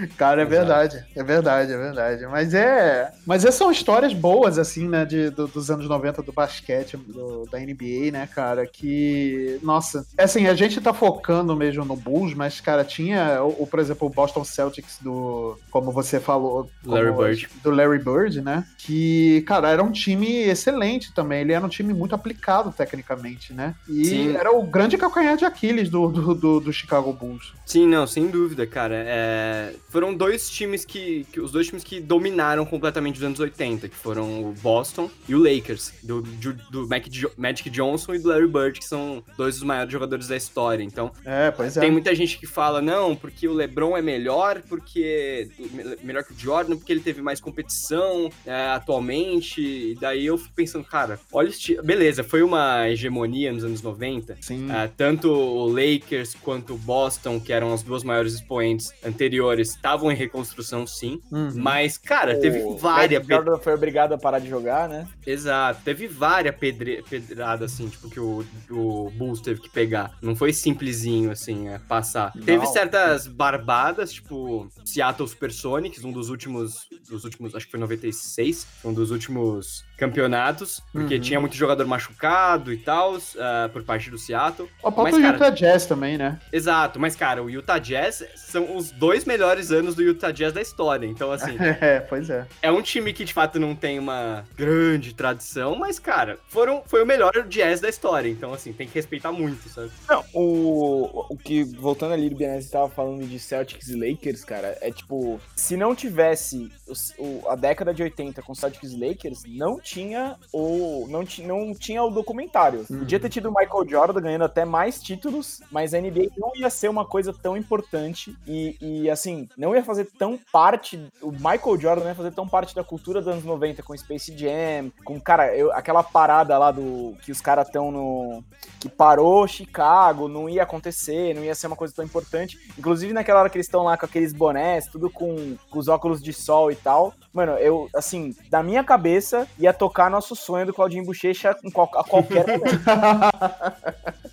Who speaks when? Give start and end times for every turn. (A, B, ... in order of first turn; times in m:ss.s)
0:00.2-0:27.5 A
0:00.4-0:00.8 B
0:16.9-0:17.5 B
0:24.0-0:24.4 B
0:27.7-0:41.2 B
0:41.2-0:42.0 A
0:41.8-1:03.4 B
0:54.4-0:54.8 A
1:01.3-1:01.8 A
1:02.3-1:05.1 C
1:05.3-1:25.5 B
1:12.4-1:13.1 A
1:21.0-1:21.5 A
1:24.8-1:26.4 A
1:26.5-1:31.7 B
1:31.4-1:32.5 A
1:32.6-1:40.0 B
1:40.1-2:22.8 C
1:52.9-1:53.3 A
2:22.2-2:22.6 B
2:22.7-2:24.1 A